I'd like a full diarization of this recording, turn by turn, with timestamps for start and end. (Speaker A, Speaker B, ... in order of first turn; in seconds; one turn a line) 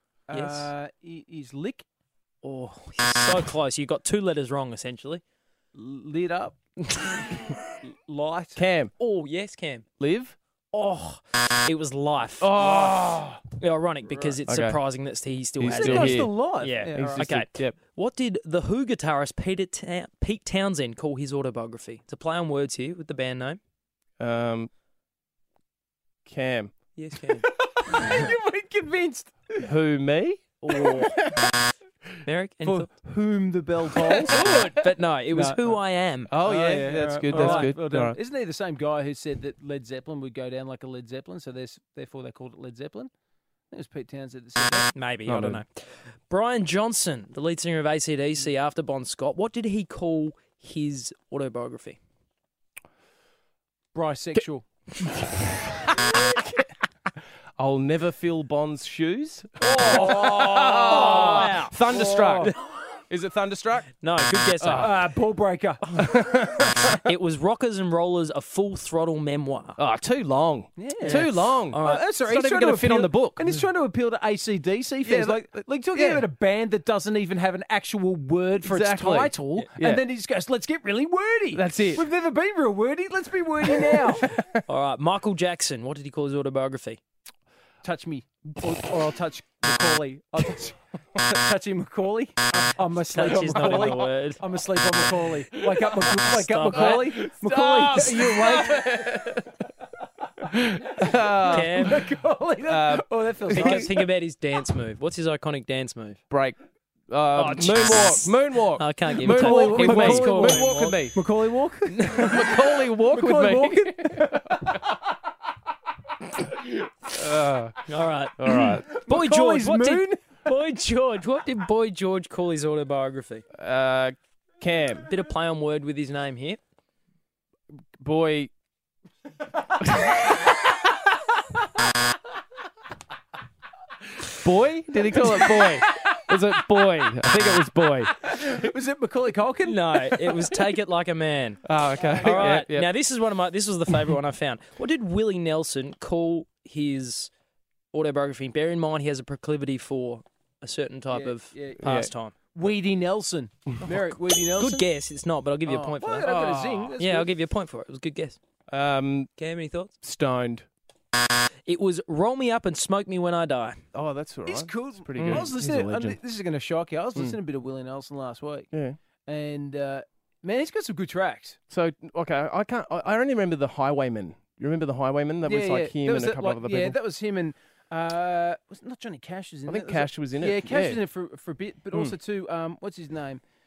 Speaker A: 0.3-1.9
Speaker B: 0.3-0.7
Speaker B: 2.4-5.2
Speaker A: 5.8-8.7
Speaker C: 8.6-8.9
Speaker B: 9.0-9.9
Speaker C: 10.0-10.4
Speaker B: 10.7-12.6
Speaker C: 12.4-13.4
Speaker B: 13.6-23.6
Speaker C: 14.4-14.8
Speaker C: 15.6-16.3
Speaker A: 15.7-17.3
Speaker C: 16.9-17.8
Speaker C: 24.2-24.7
Speaker C: 26.3-26.7
Speaker B: 27.0-27.5
Speaker A: 27.4-29.7
Speaker C: 29.6-30.6
Speaker B: 30.6-31.1
Speaker A: 30.7-31.2
Speaker B: 32.2-32.9
Speaker A: 32.6-34.5
Speaker C: 34.0-34.7
Speaker B: 34.3-36.3
Speaker A: 35.3-35.7
Speaker C: 36.3-38.2
Speaker A: 36.4-43.1
Speaker B: 37.3-37.7
Speaker A: 43.7-44.9
Speaker B: 44.9-52.0
Speaker C: 45.3-45.6
Speaker A: 53.9-54.7
Speaker C: 55.1-56.6
Speaker C: 57.6-62.5
Speaker B: 59.6-61.8
Speaker A: 59.8-60.0
Speaker A: 60.7-62.5
Speaker C: 63.1-64.0
Speaker B: 64.0-65.0
Speaker C: 64.6-65.0
Speaker A: 64.8-65.9
Speaker C: 66.0-67.0
Speaker B: 66.8-69.8
Speaker C: 69.8-73.6
Speaker A: 70.8-84.3
Speaker B: 71.0-72.0
Speaker C: 75.0-75.4
Speaker C: 75.9-76.3
Speaker C: 78.6-80.0
Speaker C: 81.5-82.0
Speaker B: 84.7-87.0
Speaker A: 87.8-99.2
Speaker B: 93.1-94.4
Speaker C: 95.7-99.5
Speaker B: 96.3-97.1
Speaker B: 98.0-98.3
Speaker C: 100.4-102.0
Speaker A: 101.0-104.1
Speaker B: 101.5-102.0
Speaker C: 102.7-103.9
Speaker B: 103.5-106.2
Speaker C: 106.3-106.6
Speaker C: 107.1-111.2
Speaker B: 107.3-111.0
Speaker A: 109.2-115.0
Speaker B: 112.0-112.4
Speaker C: 112.1-114.5
Speaker C: 117.1-117.9
Speaker B: 117.9-123.4
Speaker C: 118.4-118.9
Speaker A: 118.6-120.2
Speaker C: 123.6-125.1
Speaker B: 125.1-126.6
Speaker C: 128.0-128.5
Speaker C: 134.4-138.2
Speaker A: 138.2-140.3
Speaker B: 139.6-141.6
Speaker C: 141.6-142.9
Speaker B: 142.2-147.3
Speaker B: 147.9-152.3
Speaker A: 151.1-151.8
Speaker C: 151.8-152.1
Speaker A: 152.5-154.9
Speaker B: 154.6-156.3
Speaker A: 155.7-157.4
Speaker C: 156.2-156.9
Speaker B: 157.0-158.4
Speaker C: 158.7-159.3
Speaker B: 159.4-159.9
Speaker C: 160.0-160.7
Speaker B: 161.7-163.8
Speaker C: 163.9-166.2
Speaker A: 164.5-168.7
Speaker B: 165.2-165.5
Speaker C: 168.7-169.0
Speaker A: 169.3-171.6
Speaker C: 171.7-177.0
Speaker A: 175.4-183.4
Speaker C: 179.7-181.0